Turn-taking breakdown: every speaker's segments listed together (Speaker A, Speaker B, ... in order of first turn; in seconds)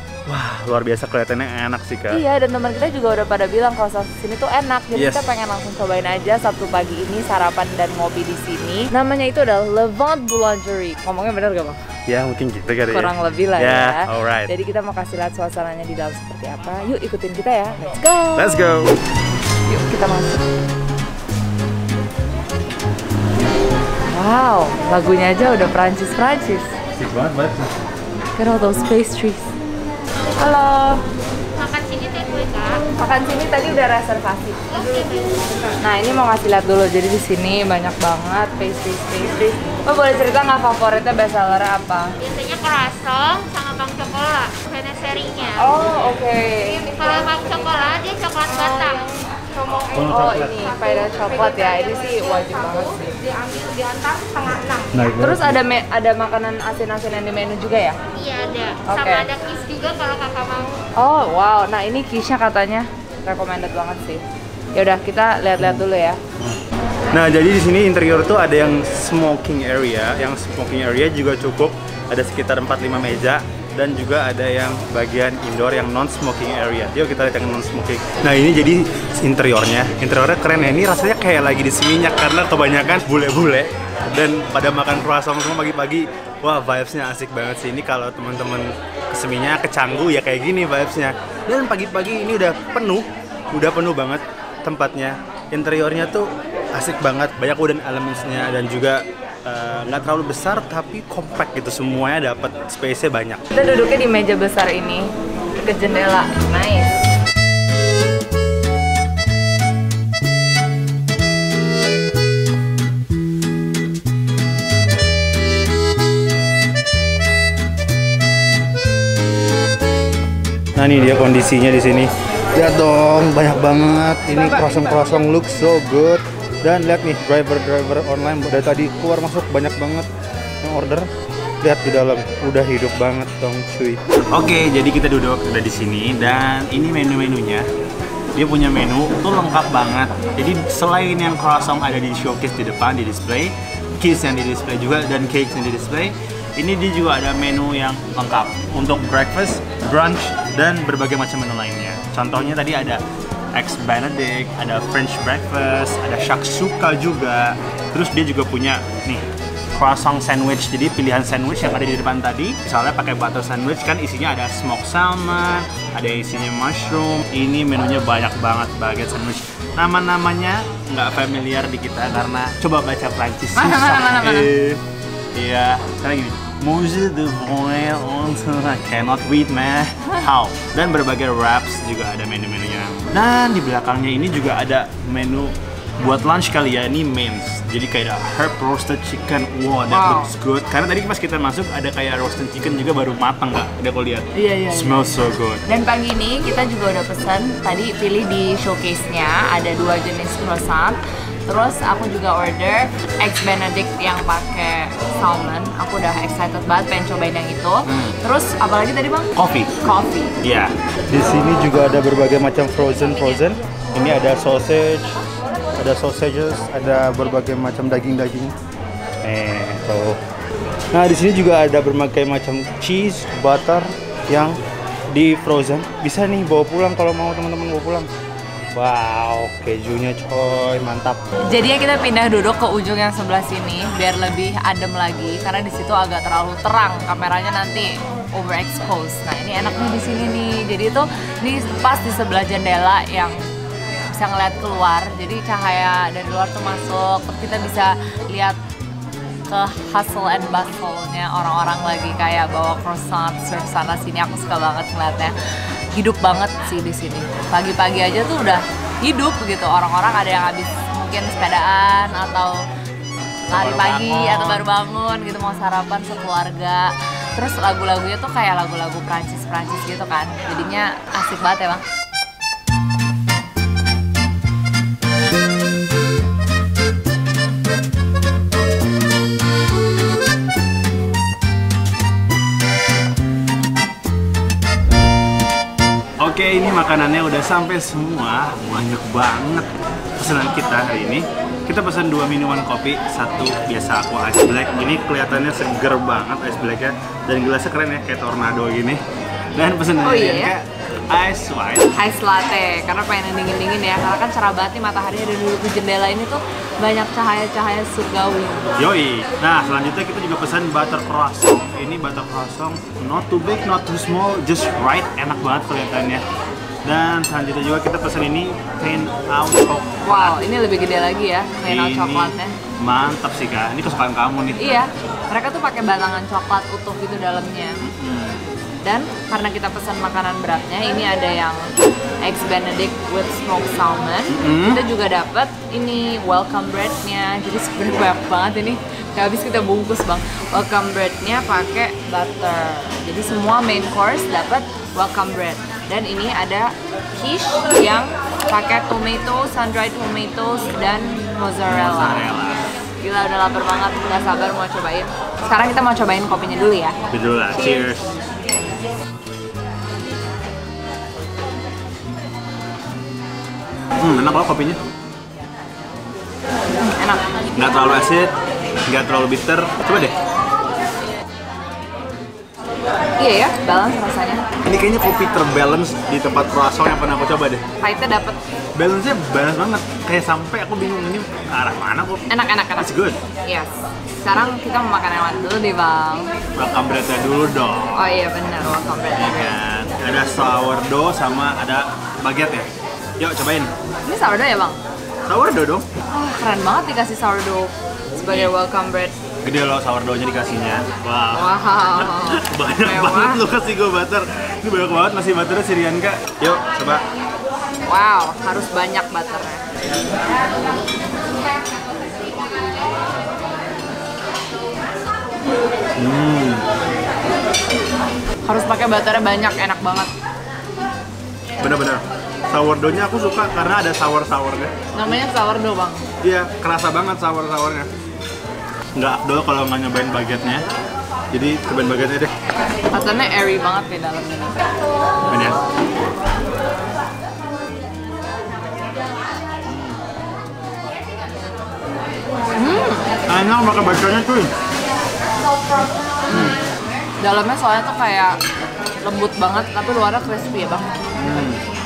Speaker A: 0.3-2.2, 4.9-5.2, 12.1-14.5, 17.9-19.0, 27.0-27.7, 49.9-50.6, 54.9-55.6, 65.6-65.8, 67.1-103.4, 120.8-130.1, 130.6-131.1, 131.6-137.7, 138.3-153.0, 153.5-174.8, 175.3-195.6, 209.4-209.7, 210.4-215.2, 215.8-218.6, 219.2-220.2, 220.9-224.6, 225.1-228.1, 228.7-231.2, 263.5-264.7, 286.2-299.0, 299.6-301.9, 308.8-316.2, 316.8-320.4, 321.6-324.6, 327.8-328.5, 334.3-334.8, 351.7-352.6, 357.1-358.1, 364.0-364.8, 367.6-368.3, 368.9-370.1, 374.6-377.6, 378.8-382.2, 382.8-383.2, 386.6-388.0, 389.2-393.7, 395.3-395.9, 399.4-407.0, 416.0-416.7, 421.6-424.7, 426.2-427.9, 428.9-430.6, 431.3-432.3, 435.3-435.6, 439.7-440.0, 443.3-444.5, 446.3-446.6, 451.2-451.6
Speaker B: 2.1-11.8, 12.9-18.6, 19.7-20.4, 24.1-26.8, 28.4-29.5, 30.4-31.0, 33.0-35.1, 35.8-42.1, 45.6-46.9, 50.0-53.3, 55.2-58.0, 58.9-59.3, 61.0-64.2, 64.8-66.2, 103.5-106.9, 173.5-174.5, 189.9-190.3, 194.3-195.1, 195.7-210.3, 231.5-243.4, 244.1-248.6, 249.5-255.3, 255.9-262.6, 263.5-271.8, 300.0-300.5, 302.0-308.8, 320.0-322.6, 324.6-327.8, 328.8-331.7, 332.2-352.3, 353.0-357.0, 366.8-367.2, 373.2-374.5, 377.8-378.4, 382.3-382.9, 383.4-386.3, 387.9-389.6, 394.1-394.8, 396.1-399.2, 401.4-403.4, 407.9-409.6, 418.4-420.1, 424.9-426.1, 432.9-434.7, 442.6-443.1, 446.2-446.6, 447.2-448.4, 449.0-451.0
Speaker C: 31.6-32.8, 34.9-35.4, 42.2-45.6, 46.9-49.1, 53.4-54.9, 58.1-60.8